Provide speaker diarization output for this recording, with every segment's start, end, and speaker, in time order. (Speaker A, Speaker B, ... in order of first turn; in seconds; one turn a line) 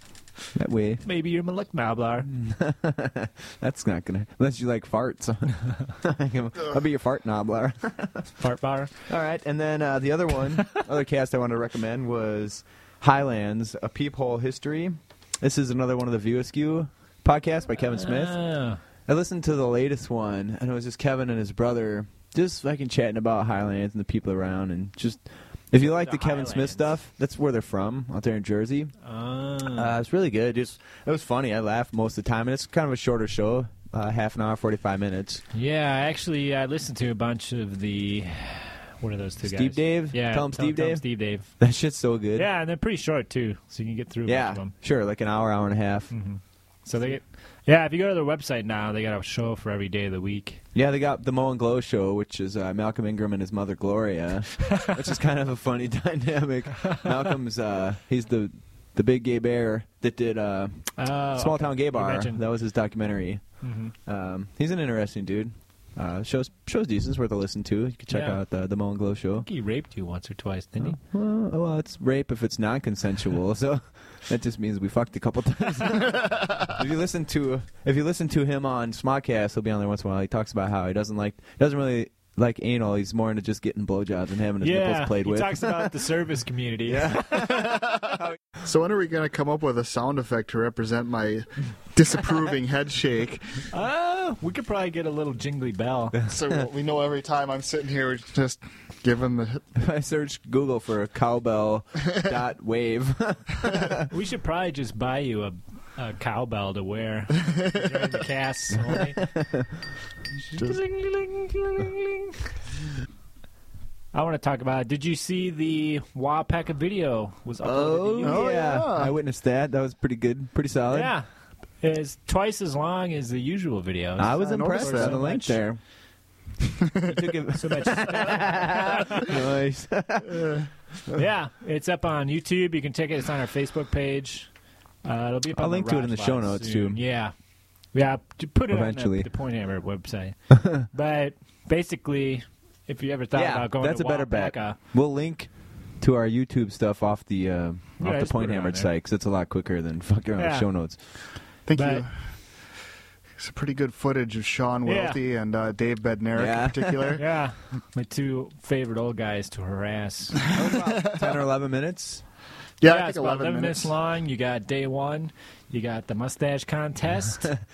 Speaker A: 0.5-1.0
Speaker B: 1.0-2.3
Speaker A: 2.3-8.3
Speaker B: 8.4-8.9
Speaker A: 9.1-18.4
Speaker B: 17.9-18.8
Speaker A: 19.1-28.9
Speaker B: 25.8-26.8
Speaker B: 29.0-29.9
Speaker A: 29.6-35.4
Speaker B: 35.5-41.5
Speaker A: 39.4-42.5
Speaker B: 42.3-44.7
Speaker A: 44.2-46.1
Speaker B: 46.1-50.6
Speaker A: 50.7-69.5
Speaker B: 61.0-62.4
Speaker B: 63.6-63.9
Speaker B: 68.1-68.4
Speaker B: 69.4-71.0
Speaker A: 70.8-85.9
Speaker B: 84.6-87.6
Speaker A: 86.9-88.4
Speaker C: 87.5-93.7
Speaker B: 93.7-96.2
Speaker C: 96.3-99.6
Speaker A: 99.8-104.1
Speaker B: 104.1-109.2
Speaker A: 109.3-109.6
Speaker B: 110.4-112.3
Speaker B: 114.1-118.5
Speaker A: 117.6-121.1
Speaker C: 118.2-119.1
Speaker B: 120.9-121.3
Speaker B: 121.8-125.6
Speaker A: 124.2-125.8
Speaker C: 124.4-125.2
Speaker A: 127.0-130.5
Speaker B: 127.5-129.3
Speaker B: 131.1-134.5
Speaker B: 135.0-137.3
Speaker A: 135.5-137.0
Speaker B: 137.9-144.8
Speaker A: 138.7-139.3
Speaker A: 140.6-140.8
Speaker A: 143.3-151.0
Speaker B: 148.0-148.9
Speaker B: 150.4-150.7
Speaker C: 151.7-152.1
Speaker B: 151.7-152.0
Speaker C: 153.4-157.2
Speaker B: 154.8-155.2
Speaker A: 156.3-157.2
Speaker B: 157.2-160.5
Speaker A: 160.5-162.2
Speaker C: 162.8-163.9
Speaker B: 162.8-167.6